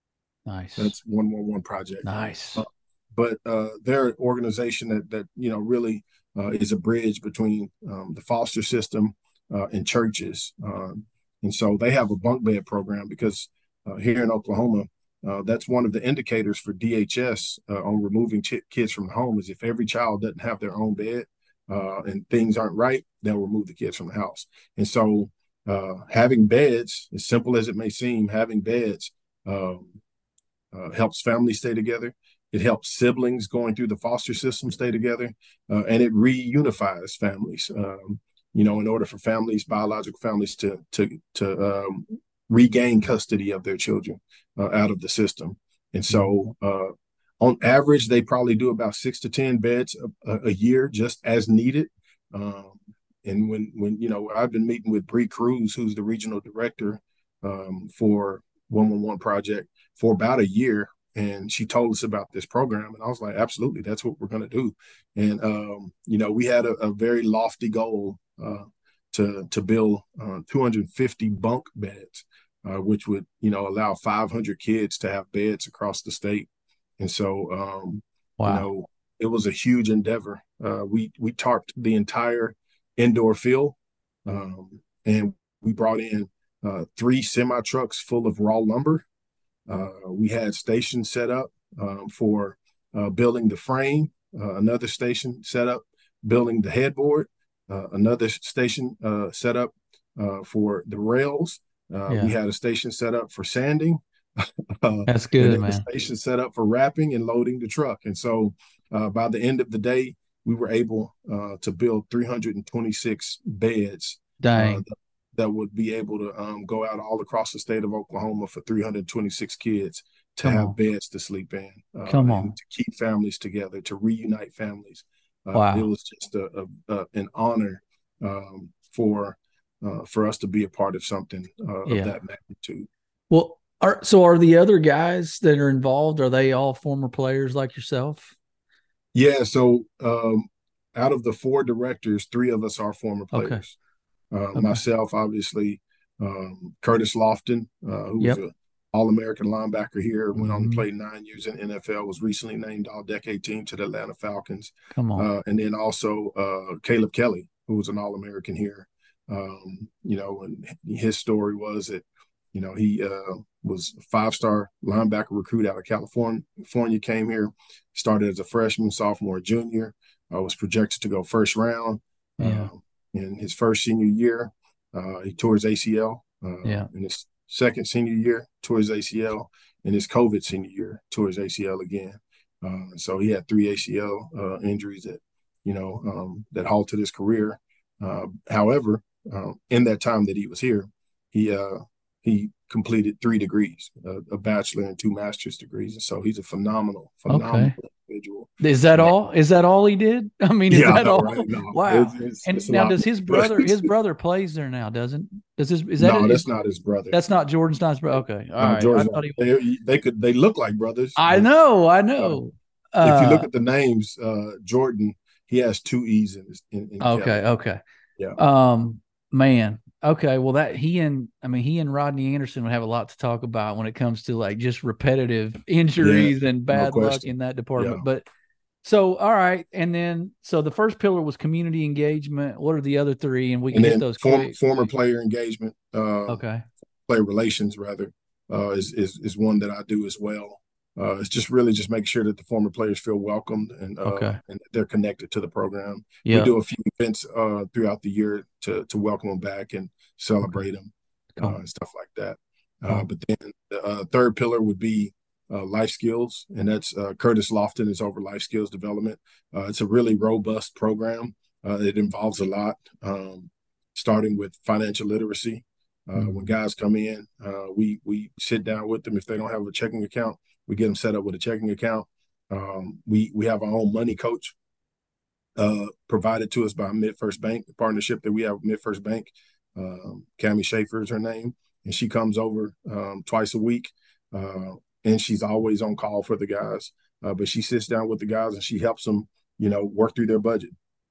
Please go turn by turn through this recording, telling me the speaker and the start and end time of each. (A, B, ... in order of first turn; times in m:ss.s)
0:00.4-0:00.9 A
0:00.8-0:30.0 B
0:02.0-0:02.6 A
0:30.7-1:16.5 B
1:17.0-1:29.0 B
1:18.4-1:18.6 A
1:29.7-2:12.9 B
1:42.1-1:42.3 A
1:45.1-1:45.8 A
1:54.4-1:54.8 A
2:00.4-2:00.7 A
2:02.1-2:02.5 A
2:05.5-2:05.9 A
2:11.9-2:12.2 A
2:13.3-2:18.4 A
2:19.1-2:23.8 B
2:23.3-2:23.6 A
2:24.3-3:19.1 B
2:24.5-2:24.8 A
2:30.4-2:30.8 A
2:34.9-2:35.3 A
2:52.4-2:52.7 A
3:17.3-3:17.7 A
3:18.6-3:26.4 A
3:20.7-3:23.9 B
3:26.0-3:27.2 B
3:27.1-3:29.4 A
3:28.1-3:31.5 B
3:31.2-3:33.5 A
3:33.0-3:37.4 B
3:37.0-3:37.8 A
3:38.4-3:48.2 A
3:46.0-3:48.0 B
3:48.8-3:54.6 A
3:53.7-3:56.4 B
3:56.3-3:56.6 A
3:57.1-4:34.5 B
4:04.0-4:04.4 A
4:06.2-4:06.5 A
4:26.2-4:26.5 A
4:35.6-4:50.7 B